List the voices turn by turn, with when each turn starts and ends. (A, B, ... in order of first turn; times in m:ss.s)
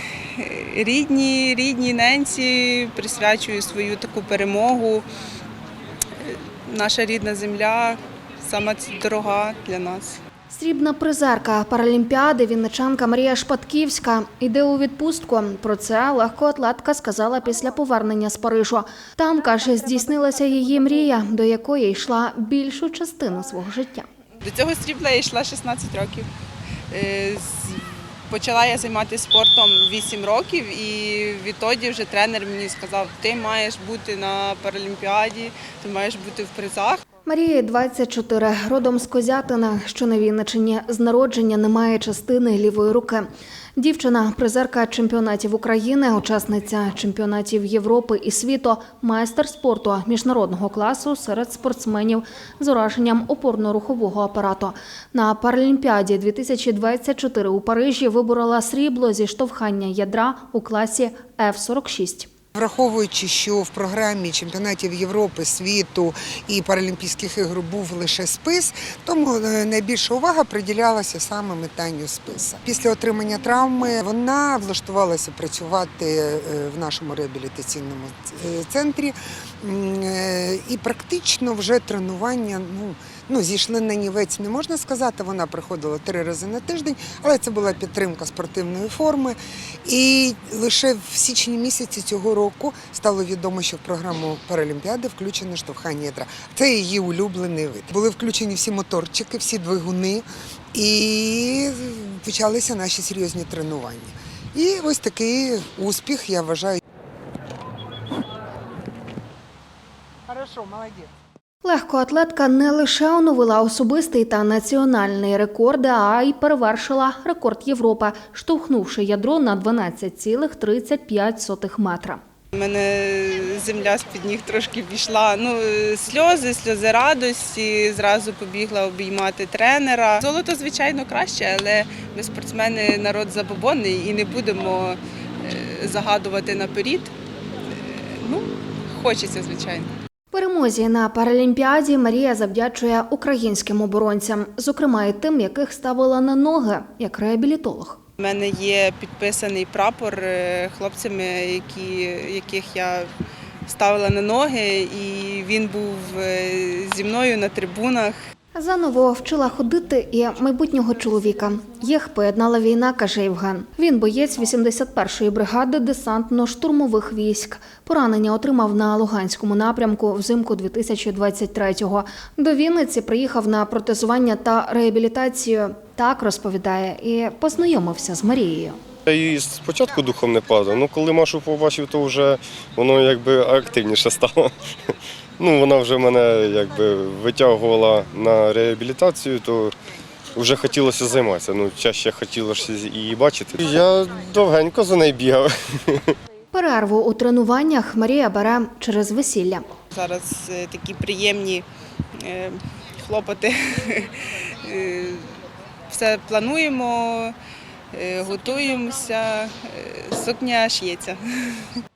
0:00.3-0:05.1 A
0:06.2-0:10.2 A
0:10.5-0:24.1 B
0:24.4-0:26.3 A
0:26.9-0:37.0 A
0:37.2-1:02.3 B
1:02.5-1:46.8 C
1:50.3-1:51.1 C
1:51.6-2:02.2 B
2:02.5-2:17.1 A
2:17.7-2:19.9 A
2:20.3-2:28.0 B
2:28.2-2:33.1 A
2:33.6-2:38.2 A
2:38.5-2:58.8 B
2:59.1-3:04.5 D
3:05.4-3:09.7 D
3:10.3-3:16.1 D
3:16.5-3:19.6 B
3:19.9-3:21.6 A
3:22.2-3:25.3 A
3:25.9-3:27.3 A
3:27.9-3:31.7 A